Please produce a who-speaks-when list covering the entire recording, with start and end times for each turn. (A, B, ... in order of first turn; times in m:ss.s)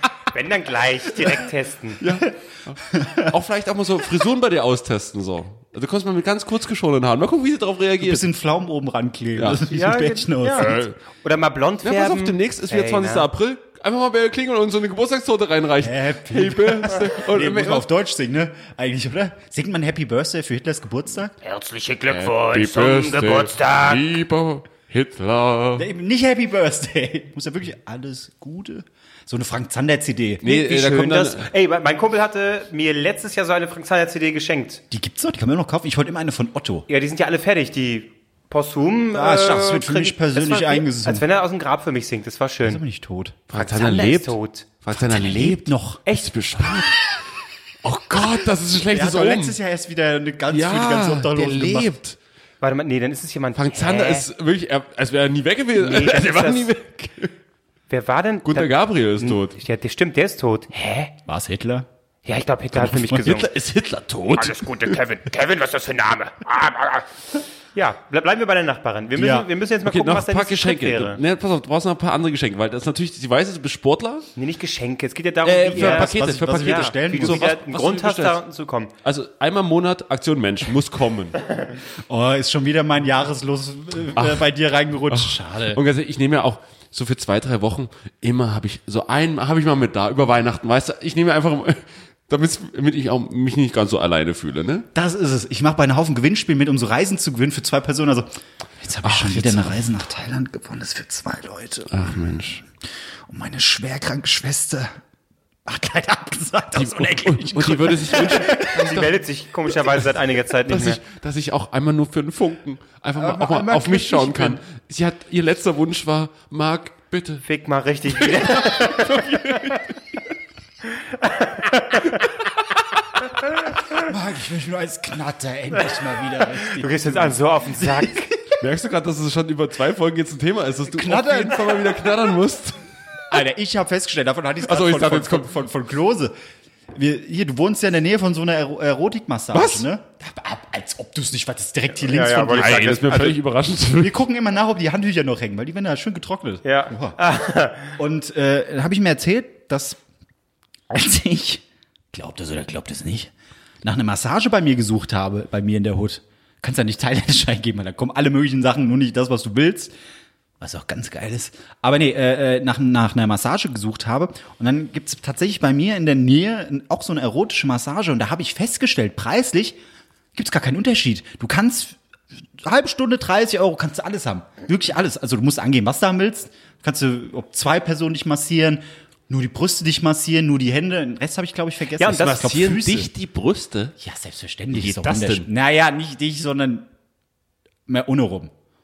0:00.2-0:02.0 A
0:02.0-0:08.2 B
0:02.9-0:03.3 C
0:08.0-0:10.8 C
0:09.4-0:09.6 B
0:09.7-0:13.2 A
0:10.5-0:11.0 B
0:11.8-0:17.8 B
0:15.8-0:21.4 C
0:21.4-0:24.0 A
0:22.1-0:25.9 B
0:25.8-0:30.5 C
0:30.4-0:31.5 B
0:30.4-0:34.8 A
0:34.9-0:36.9 C
0:36.9-0:42.8 A
0:39.1-0:41.2 C
0:42.6-0:43.4 C
0:43.5-0:47.0 B
0:43.5-0:44.7 A
0:44.9-0:46.0 C
0:46.1-0:46.3 A
0:47.8-0:49.6 B
0:48.9-0:51.9 C
0:50.5-0:52.2 B
0:52.6-0:54.2 A
0:53.6-0:57.3 B
0:55.8-0:56.7 A
0:57.9-1:01.1 A
0:58.4-0:59.6 B
1:01.2-1:01.9 C
1:02.2-1:03.5 A
1:02.8-1:05.0 B
1:04.3-1:07.1 A
1:07.7-1:11.2 A
1:09.1-1:09.5 C
1:09.8-1:14.3 B
1:14.4-1:18.9 A
1:15.4-1:18.4 B
1:15.7-1:17.4 C
1:19.0-1:21.4 B
1:22.1-1:25.8 C
1:24.1-1:24.4 B
1:25.1-1:34.9 B
1:34.9-1:42.2 C
1:39.0-1:39.8 B
1:41.9-1:42.6 B
1:43.3-1:44.9 C
1:45.6-1:49.0 C
1:46.8-1:49.1 B
1:48.4-1:51.0 A
1:50.7-1:57.4 B
1:53.2-1:54.6 C
1:57.4-1:59.8 A
1:58.2-1:59.8 B
2:01.2-2:02.2 A
2:04.0-2:08.6 C
2:06.6-2:08.3 A
2:08.6-2:12.8 B
2:10.9-2:12.1 C
2:13.3-2:16.3 C
2:14.6-2:15.5 B
2:16.9-2:23.2 C
2:19.5-2:19.8 B
2:22.0-2:23.4 A
2:22.5-2:24.2 B
2:24.0-2:27.2 C
2:26.6-2:27.9 A
2:27.9-2:30.0 C
2:30.9-2:33.3 C
2:33.8-2:39.9 C
2:40.6-2:49.8 C
2:50.3-2:52.0 C
2:52.6-3:03.1 C
3:02.0-3:02.3 A
3:02.0-3:03.9 B
3:04.0-3:06.9 C
3:04.7-3:05.5 B
3:07.9-3:08.5 C